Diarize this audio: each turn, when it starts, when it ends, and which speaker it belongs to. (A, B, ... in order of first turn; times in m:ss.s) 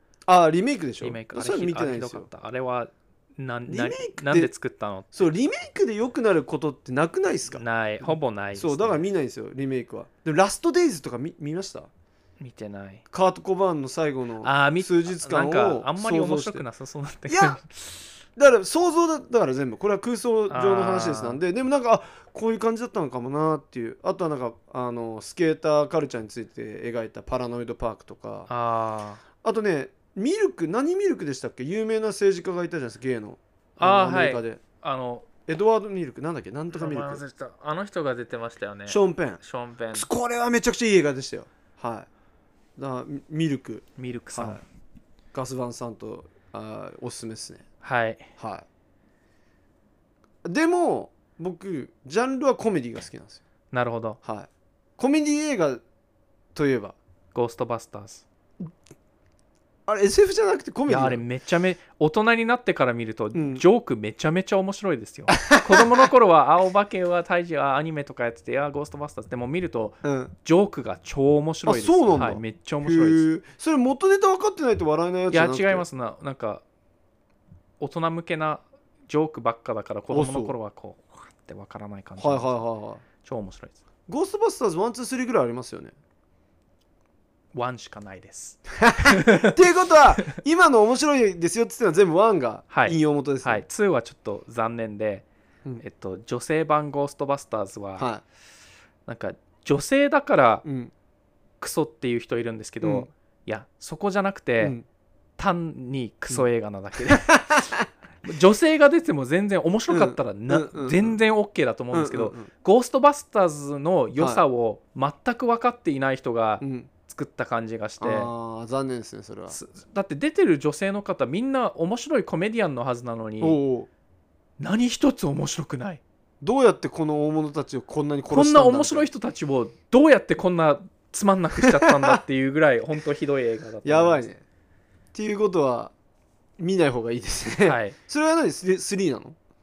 0:00.3-0:02.3 A
0:01.0-0:05.2 B
0:03.7-0:04.5 A
0:05.1-0:11.9 A
0:07.5-0:09.0 B
0:12.4-0:13.0 B
0:13.1-0:16.6 A
0:14.4-0:18.0 B
0:17.3-0:17.6 A
0:18.4-0:28.5 A
0:20.5-0:21.4 B
0:28.5-0:29.2 B
0:29.4-0:34.6 A
0:33.8-0:35.3 B
0:35.5-0:37.2 A
0:36.7-0:40.1 B
0:38.9-0:39.4 A
0:39.9-0:42.1 A
0:42.8-0:44.6 A
0:44.0-0:44.6 B
0:45.3-0:47.6 A
0:47.8-0:48.3 B
0:48.4-0:48.6 A
0:50.4-0:53.4 A
0:53.7-0:54.2 B
0:54.2-0:55.8 A
0:56.5-0:57.0 A
0:57.3-0:58.2 B
0:59.9-1:01.2 A
1:00.9-1:13.2 B
1:03.3-1:03.6 A
1:05.4-1:06.1 A
1:10.0-1:10.3 A
1:11.6-1:15.8 A
1:15.3-1:16.6 B
1:17.8-1:22.6 B
1:20.1-1:20.5 A
1:22.2-1:23.0 A
1:23.2-1:23.8 B
1:24.1-1:25.9 A
1:27.5-1:29.6 B
1:28.8-1:33.6 A
1:32.7-1:35.2 B
1:35.8-1:38.1 B
1:38.0-1:38.2 A
1:39.0-1:40.6 B
1:40.6-1:40.9 A
1:41.6-1:44.8 B
1:42.8-1:43.1 A
1:45.4-1:47.6 B
1:47.0-1:47.8 A
1:48.2-1:58.3 B
1:49.9-1:51.2 A
1:51.9-1:52.5 A
1:56.6-1:56.9 A
1:58.0-1:59.6 A
1:59.5-2:03.6 B
2:03.4-2:03.9 A
2:04.6-2:06.0 B
2:06.4-2:09.1 A
2:08.3-2:14.3 B
2:11.6-2:12.2 A
2:13.8-2:14.4 A
2:15.1-2:15.9 A
2:16.6-2:19.4 A
2:17.6-2:18.0 B